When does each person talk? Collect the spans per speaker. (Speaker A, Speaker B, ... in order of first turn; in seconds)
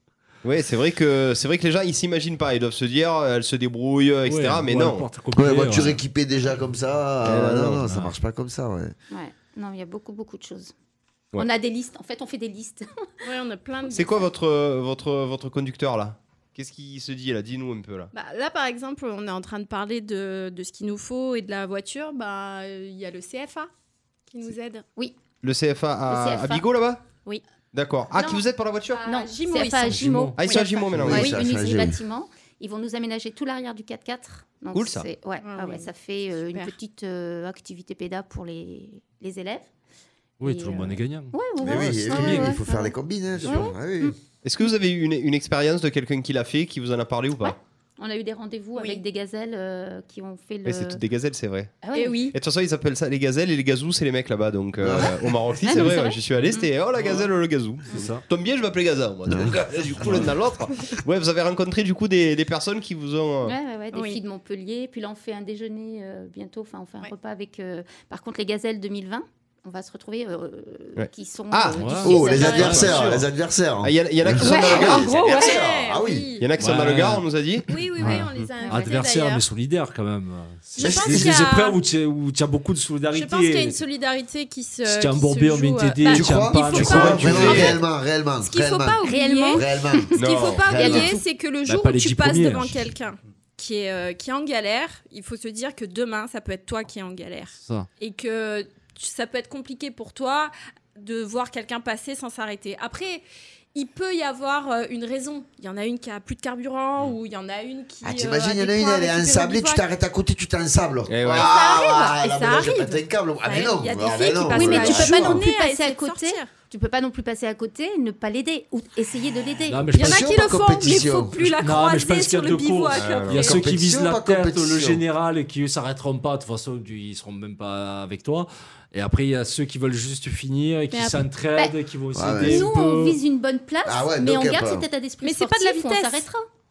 Speaker A: 0.4-5.1, 7.2-7.8, 13.9-18.1, 25.4-27.0, 27.7-29.0, 30.4-31.4, 34.7-35.1, 44.4-47.6, 50.6-51.8, 52.3-63.6, 71.0-73.0, 73.8-75.4, 76.4-78.5, 86.9-87.8, 90.2-90.8, 111.1-111.5, 122.9-123.4
Speaker B: 4.3-6.0, 7.9-8.2, 29.9-30.4, 40.4-42.6, 43.4-43.7, 57.9-58.2, 71.8-73.2, 76.6-77.2, 78.0-83.8, 84.8-87.8, 91.7-92.9, 97.6-97.9, 119.7-120.3, 121.6-133.2
Speaker C: 5.3-8.9, 30.9-32.0, 41.6-44.1, 54.8-55.4, 59.3-60.3, 72.0-76.3, 80.8-81.4, 86.1-89.0, 89.5-91.1, 108.0-115.5, 120.0-121.5, 123.4-125.0, 132.2-132.7, 133.8-134.9
Speaker D: 9.1-10.7, 11.3-13.3, 26.1-26.7, 29.0-39.7, 40.4-43.0, 43.5-44.2, 47.4-51.0, 51.8-52.3, 55.6-56.2, 63.4-73.0, 74.4-75.5, 78.6-79.0, 89.0-90.2, 90.8-91.2, 114.4-119.9, 132.4-136.4
Speaker E: 13.2-14.3, 18.1-23.7, 24.3-24.9, 28.9-31.3, 35.4-36.8, 48.8-49.0, 52.0-52.4, 63.9-64.2, 74.5-76.5, 77.7-79.5, 80.8-81.8, 83.1-87.8, 88.4-89.7, 90.2-109.8, 111.3-116.5, 120.0-123.7, 130.9-131.3, 135.2-136.3